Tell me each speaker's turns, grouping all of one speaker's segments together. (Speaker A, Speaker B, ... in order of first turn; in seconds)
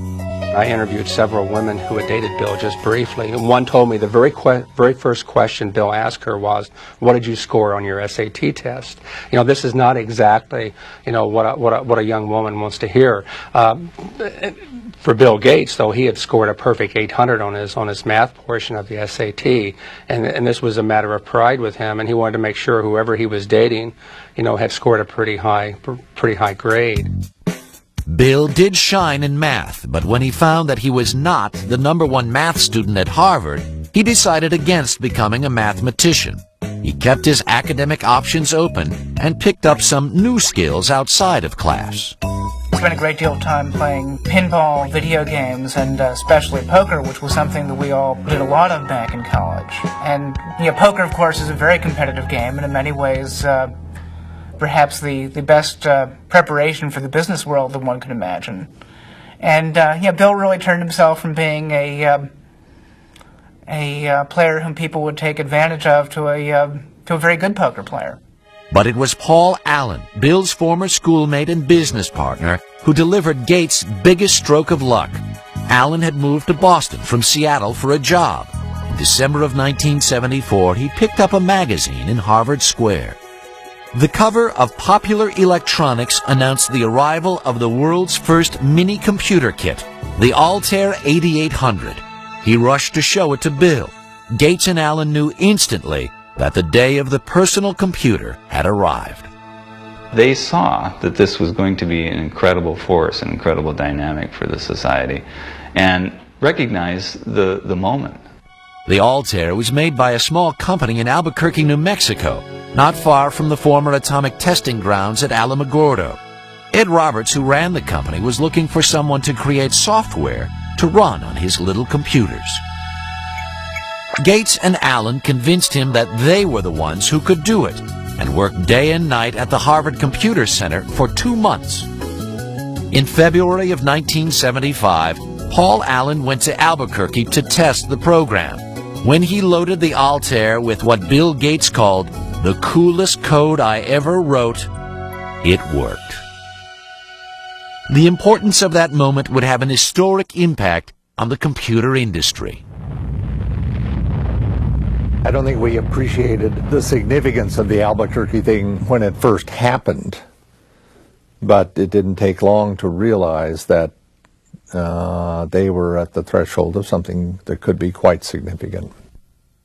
Speaker A: 0.5-27.1
Speaker B: 28.1-42.1, 68.7-83.2, 83.9-99.3, 108.9-116.2, 116.7-122.6, 124.2-131.9, 132.9-144.7, 145.4-146.2, 147.9-152.6
Speaker C: 42.7-53.7, 54.6-58.7, 59.4-62.3, 63.7-68.2
Speaker D: 100.1-105.2, 105.7-108.2
Speaker E: 155.2-160.2, 161.4-163.9, 164.7-168.9